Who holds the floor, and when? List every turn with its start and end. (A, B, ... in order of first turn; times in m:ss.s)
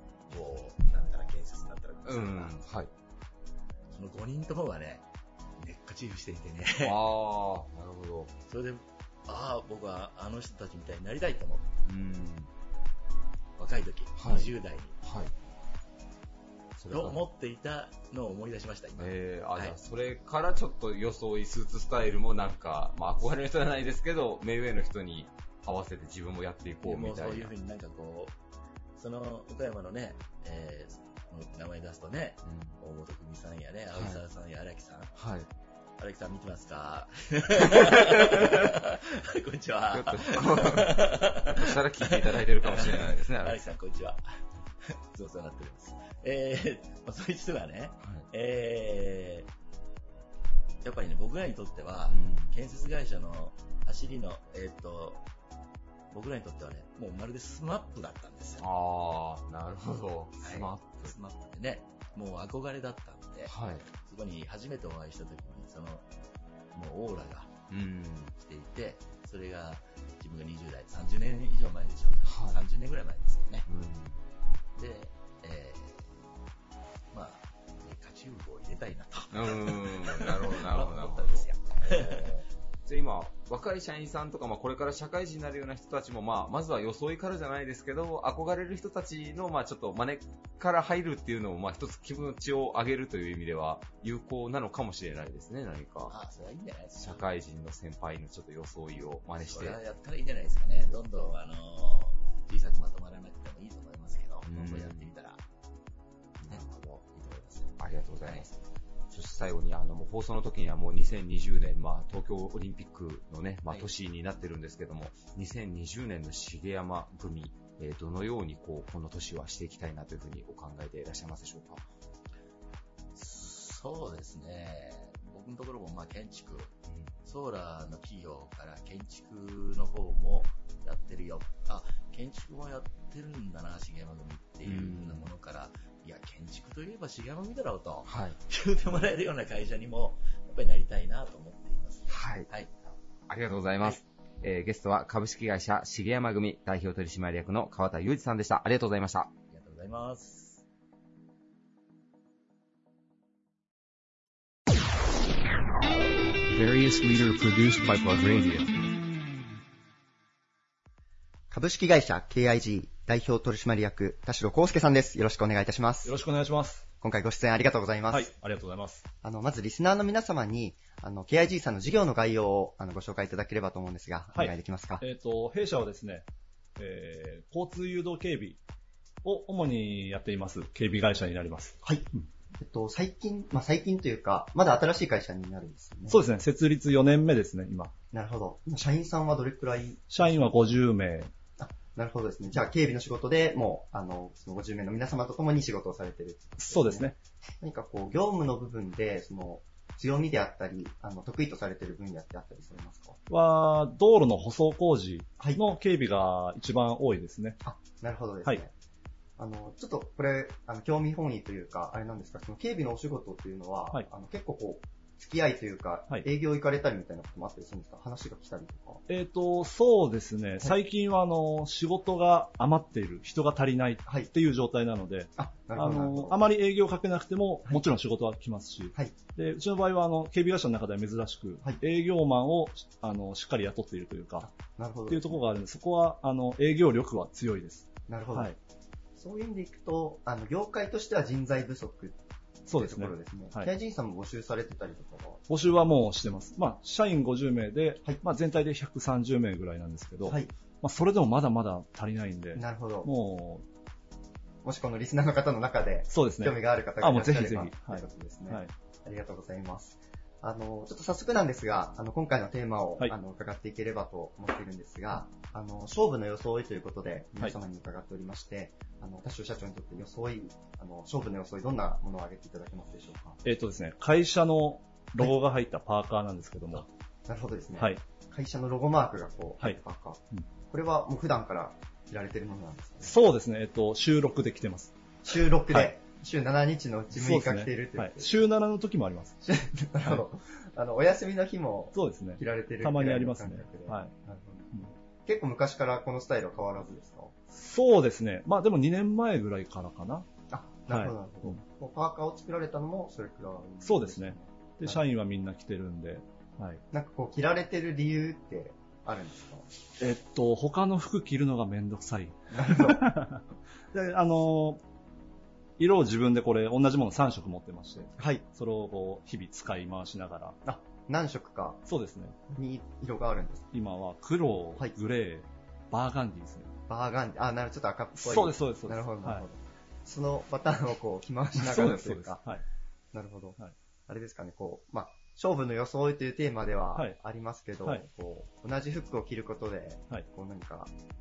0:00.3-0:02.6 A
0:02.0-0:02.9 B
0:03.9-0:05.0 A
0:05.6-0:07.0 A
0:06.8-0:08.3 B
0:08.5-0:11.8 A
0:11.8-0:12.5 B
0:13.6-0:15.0 A
0:14.2-0:14.5 B
0:15.0-0:15.3 B
0:16.8-0:17.2 B
0:16.9-0:19.8 A
0:19.0-0:27.5 B
0:26.8-0:28.3 A
0:29.0-0:35.1 A
0:32.4-0:32.8 B
0:33.9-0:34.2 B
0:35.1-0:35.5 B
0:36.0-0:44.4 A
0:39.9-0:43.7 B
0:45.1-0:49.5 A
0:48.0-0:48.3 B
0:50.8-0:55.2 A
0:52.1-0:52.5 B
0:56.1-0:58.6 A
0:58.6-1:01.2 B
1:00.4-1:06.1 A
1:03.4-1:03.9 B
1:06.7-1:07.5 A
1:07.7-1:08.3 B
1:08.3-1:13.7 A
1:12.2-1:12.6 B
1:13.7-1:14.2 B
1:14.8-1:16.1 A
1:17.1-1:22.4 A
1:19.3-1:36.2 B
1:36.1-1:37.2 A
1:37.0-1:39.8 B
1:39.4-1:45.4 A
1:40.6-1:41.0 B
1:44.4-1:45.1 B
1:46.4-1:48.5 B
1:46.5-1:48.6 A
1:49.1-2:01.8 B
1:53.7-1:53.9 A
2:03.1-2:22.7 A
2:14.6-2:15.3 B
2:18.0-2:18.4 B
2:22.1-2:22.5 B
2:23.3-2:29.3 B
2:29.5-2:30.6 A
2:36.5-2:38.8 C
2:41.5-2:46.1 D
2:46.0-2:46.8 E
2:47.0-2:48.3 D
2:48.1-2:49.0 E
2:49.2-2:55.0 D
2:54.3-2:56.2 E
2:56.8-2:58.6 E
2:59.2-3:02.2 E
3:01.8-3:06.2 D
3:06.1-3:07.9 E
3:08.1-3:10.3 D
3:10.1-3:11.3 E
3:11.6-3:23.2 D
3:16.6-3:17.2 E
3:23.3-3:27.6 E
3:25.4-3:25.6 D
3:27.6-3:28.7 D
3:29.4-3:39.0 D
3:39.1-3:54.5 E
3:45.4-3:46.4 D
3:54.4-3:55.4 D
3:55.1-3:58.6 E
3:58.1-3:58.5 D
3:59.2-4:02.2 D
4:02.7-4:03.7 E
4:02.7-4:05.4 D
4:05.5-4:13.6 E
4:10.2-4:10.5 D
4:12.6-4:13.1 D
4:14.6-4:33.4 D
4:16.1-4:18.7 E
4:33.4-4:36.8 E
4:37.3-4:43.2 D
4:43.0-4:45.9 E
4:45.2-4:48.3 D
4:47.1-4:49.4 E
4:49.4-4:57.3 D
4:51.9-4:54.1 E
4:57.5-5:00.3 E
5:00.5-5:05.0 D
5:00.9-5:01.6 E
5:03.8-5:06.8 E
5:06.9-5:09.6 D
5:10.0-5:14.8 E
5:12.5-5:13.0 D
5:15.8-5:20.6 E
5:18.2-5:18.4 D
5:20.6-5:21.8 D
5:21.8-5:22.4 E
5:22.5-5:23.7 D
5:23.7-5:26.8 E
5:26.9-5:32.4 D
5:28.1-5:29.4 E
5:31.5-5:32.6 E
5:33.1-5:33.6 D
5:34.1-5:40.9 D
5:36.9-5:37.2 E